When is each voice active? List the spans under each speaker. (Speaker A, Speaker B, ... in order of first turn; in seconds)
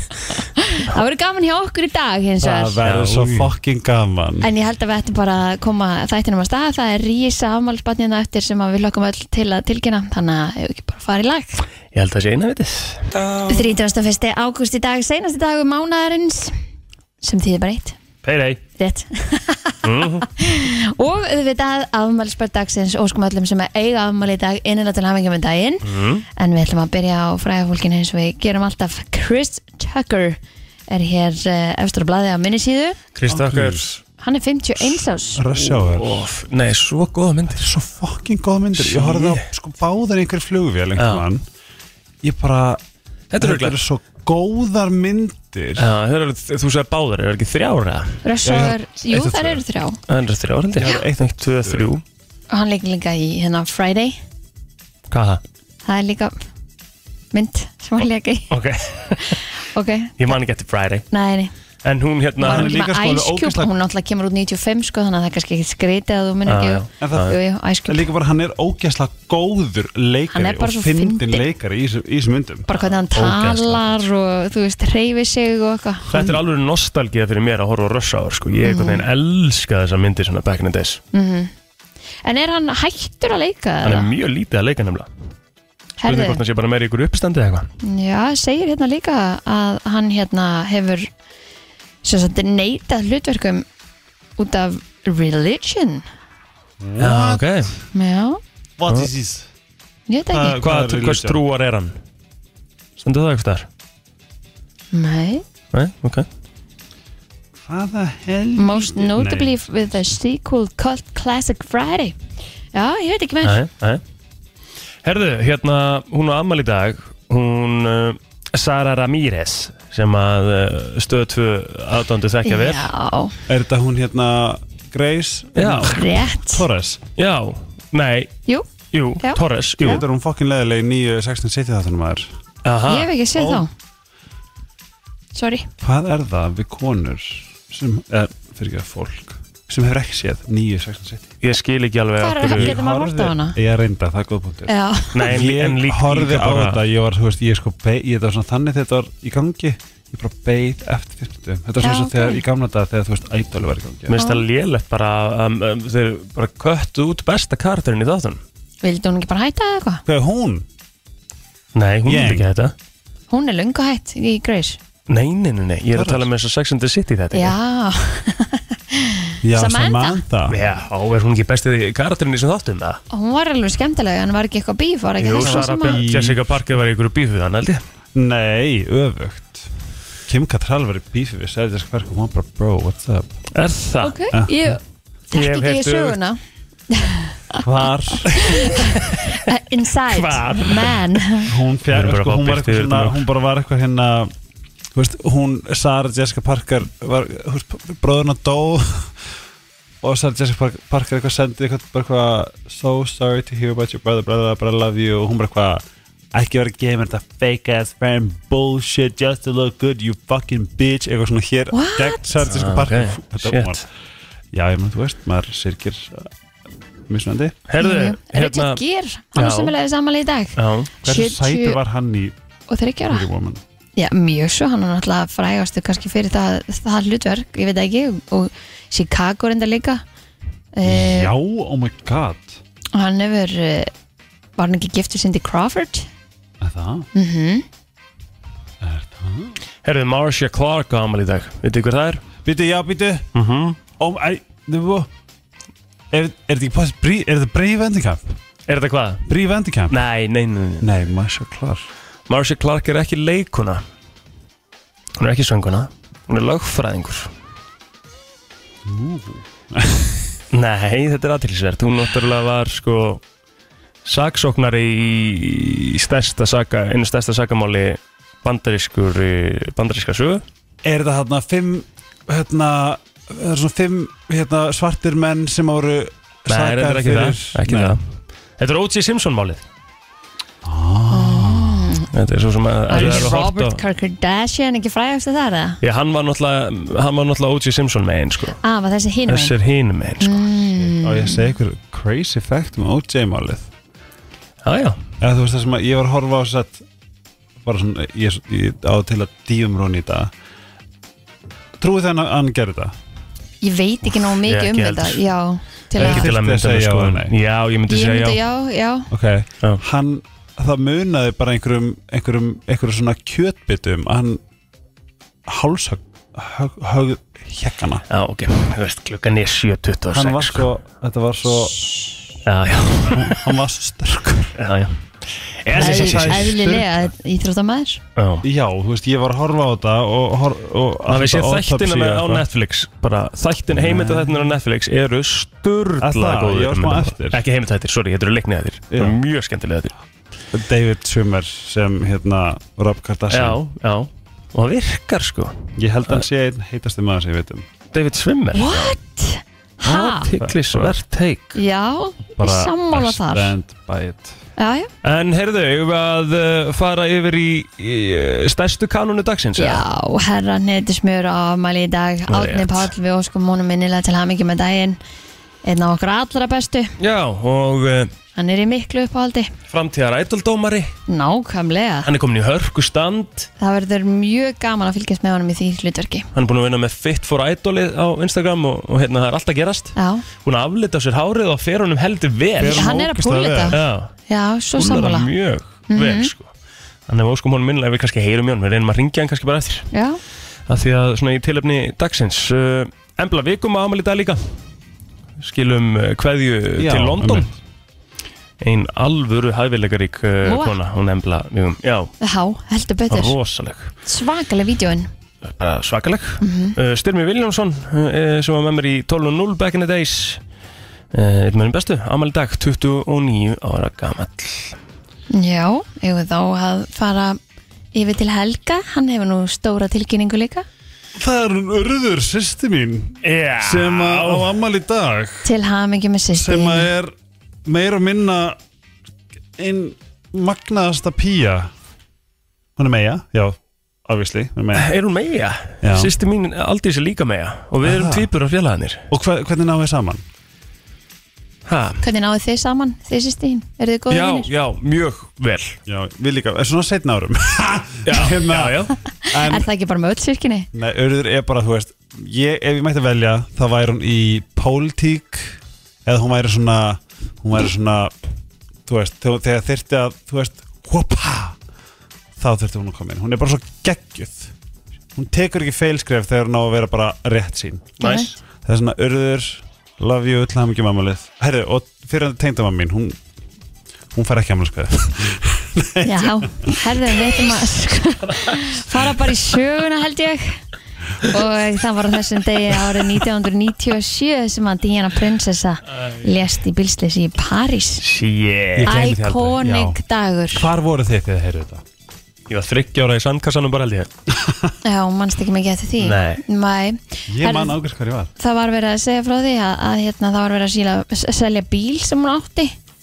Speaker A: 0.6-2.8, 4.4-11.6, 13.5-16.5, 17.2-18.0, 18.8-25.8, 26.4-33.0, 34.2-35.4, 48.2-50.0, 52.5-54.2, 55.8-56.3, 57.3-58.5, 59.2-60.3, 61.1-61.5, 62.4-68.1, 70.3-71.4, 72.7-76.1, 78.6-79.0, 81.1-81.5, 82.2-84.1, 86.0-86.4, 87.8-91.1, 92.0-93.7, 94.4-96.0, 97.9-98.4, 100.1-100.6, 104.9-105.4, 108.6-112.2, 112.7-113.6, 122.5-123.3, 125.8-126.6, 129.2-130.0, 132.9-133.7, 135.3-135.7, 142.2-143.6, 144.7-145.3, 151.8-152.4, 154.1-154.4, 158.8-160.0, 163.3-164.8, 167.3-170.2, 173.1-176.0, 184.0-184.8, 185.3-186.4, 186.9-191.5, 211.7-212.2, 217.8-221.8, 222.7-223.2, 224.0-230.0, 230.7-231.3, 232.9-233.9, 234.6-236.1, 237.1-237.6, 281.1-282.1, 282.9-285.8, 288.6-289.5, 290.2-291.5, 303.6-306.3, 307.9-309.1, 325.8-328.0, 348.5-350.3, 351.5-353.5, 354.6-354.9, 359.6-365.0, 365.6-366.9, 368.3-369.5, 371.1-372.1, 373.6-376.3, 379.9-380.2, 382.6-383.8, 384.3-385.3, 385.9-386.3, 389.9-390.2, 400.4-400.8, 402.2-403.3, 404.1-405.1, 406.4-406.8, 415.3-417.4, 417.9-420.6, 425.4-426.9, 442.0-444.5, 449.2-450.7, 468.0-468.3, 476.0-480.6, 481.2-488.0, 488.8-490.7, 494.8-497.8, 498.4-502.7
Speaker B: 2.4-4.5, 33.3-33.9, 34.9-36.3, 37.5-41.4, 42.2-42.8, 43.4-45.9, 48.4-49.6, 50.8-51.9, 62.4-63.7, 67.0-67.3, 67.9-72.7, 96.8-97.5, 98.8-99.5, 100.3-101.4, 107.6-109.5, 123.5-127.0, 129.8-132.3, 133.3-133.6, 135.8-141.3, 142.5-154.2, 160.1-160.7, 162.0-162.5, 165.9-166.3, 169.4-170.6, 175.3-176.4, 178.1-179.7, 180.3-183.4, 184.3-184.7, 187.6-188.6, 191.5-194.3, 194.9-199.1, 200.0-205.8, 206.3-213.8, 214.5-216.3, 217.1-217.6, 221.0-222.3, 223.1-223.6, 230.8-232.6, 236.6-237.1, 238.8-239.6, 242.4-243.3, 244.0-245.1, 246.1-248.3, 249.3-250.0, 250.8-251.9, 258.8-260.3, 270.8-278.0, 280.6-282.0, 283.0-283.3, 290.9-293.7, 295.2-296.8, 297.6-300.3, 301.8-302.9, 306.0-307.3, 309.1-314.4, 315.4-318.0, 320.1-321.9, 323.1-324.5, 325.7-327.1, 328.4-332.4, 333.7-334.5, 336.0-337.4, 338.9-339.2, 340.5-343.6, 345.8-347.6, 350.4-350.9, 352.4-354.4, 382.6-383.8, 396.8-397.5, 421.1-425.5, 426.3-427.1, 427.6-428.6, 429.6-431.7, 432.8-434.9, 435.8-436.1, 437.8-438.3, 439.1-440.2, 445.9-449.7, 450.7-458.1, 458.9-461.6, 462.4-464.5, 465.1-468.0, 468.6-473.2, 474.1-476.7, 488.8-490.0, 490.5-491.8, 494.4-494.7, 497.3-498.3
Speaker C: 2.8-3.5, 11.9-13.5, 18.2-18.6, 19.8-20.3, 25.8-26.2, 33.1-34.0, 35.6-37.7, 38.8-39.4, 41.0-41.2, 43.3-43.8, 45.8-48.2, 50.1-52.0, 55.1-55.4, 58.5-59.4, 60.2-61.0, 61.8-62.8, 66.5-67.3, 72.8-74.0, 76.1-81.0, 83.8-85.1, 86.0-87.7, 97.0-97.7, 100.5-102.0, 103.0-103.7, 105.7-106.2, 113.4-114.0, 115.0-122.9, 125.5-125.9, 127.2-128.3, 128.9-130.0, 132.6-133.1, 141.4-142.7, 145.1-146.8, 154.1-158.4, 161.7-162.7, 165.1-167.6, 170.5-173.0, 175.2-177.8, 183.5-184.2, 185.3-186.2, 188.8-189.3, 190.1-191.2, 191.9-193.2, 212.4-213.8, 217.7-218.8, 219.3-219.7, 220.6-220.9, 239.8-242.2, 243.3-243.8, 248.7-249.2, 249.9-250.9, 252.3-253.8, 255.2-257.3, 260.5-263.2, 264.0-270.4, 276.5-278.0, 278.6-279.6, 282.1-283.8, 285.8-288.6, 289.3-290.5, 294.6-295.0, 304.4-305.2, 305.9-308.4, 318.1-320.7, 322.4-323.5, 324.6-324.9, 325.6-326.6, 328.1-328.4, 331.1-339.9, 343.3-345.6, 347.9-348.9, 349.8-351.6, 355.0-359.8, 362.3-362.9, 367.0-368.1, 369.7-370.9, 372.0-373.5, 376.3-382.9, 383.7-384.1, 384.8-386.5, 387.1-389.9, 390.7-394.4, 395.4-397.5, 398.6-402.1, 403.1-403.9, 405.4-410.4, 411.1-414.8, 423.2-424.5, 434.7-439.1, 441.6-442.0, 444.1-445.8, 448.1-448.9, 468.0-468.4, 488.0-489.6, 492.5-494.1, 496.0-496.4